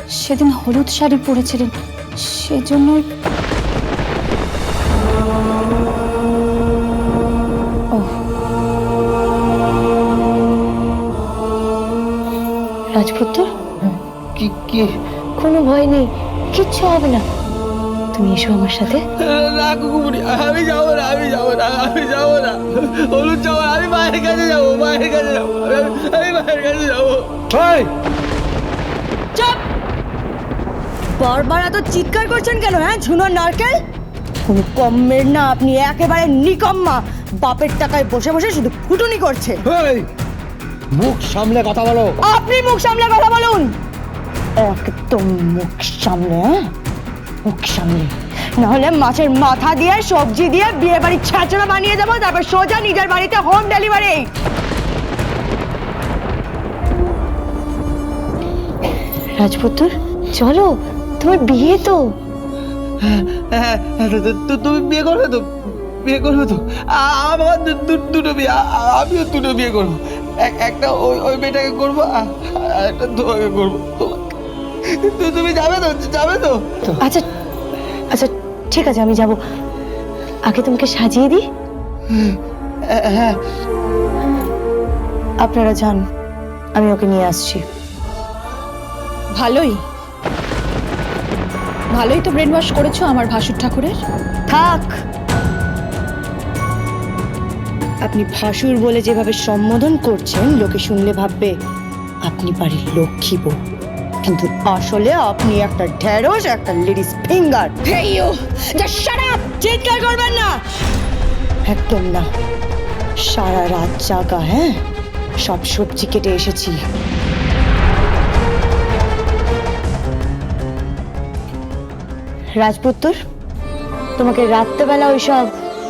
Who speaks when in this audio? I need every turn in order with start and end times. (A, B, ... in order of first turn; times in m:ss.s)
0:00.2-0:03.0 A
0:12.9-0:13.5 B
0:14.4-0:14.8 C
0:15.4-0:17.2 B
0:18.1-0:19.0 B
0:19.2-0:27.3 C
0:27.5-0:27.9 D
0:29.3-0:29.6 B
0:31.2-0:33.8 B
0:34.4-0:39.6 B
0:39.7-0:40.0 D
0:41.0-0:42.1 D
0:42.2-0:43.7 B
0:44.6-0:46.7 B
0:47.4-0:54.2 B
0:59.4-1:02.0 B
1:03.0-1:05.4 C
1:06.0-1:14.2 C
1:14.9-1:16.9 C
1:18.1-1:19.4 B
1:20.5-1:21.4 B
1:22.9-1:23.4 C
1:25.4-1:26.0 B
1:26.8-1:27.6 B
1:29.3-1:29.8 E
1:31.9-1:34.0 E
1:34.5-1:34.9 B
1:38.0-1:41.5 B
1:42.3-1:43.6 B
1:44.2-1:50.6 B
1:51.7-1:52.3 B
1:53.2-1:54.8 B
1:55.4-1:56.8 B
2:02.6-2:03.2 B
2:04.2-2:05.5 B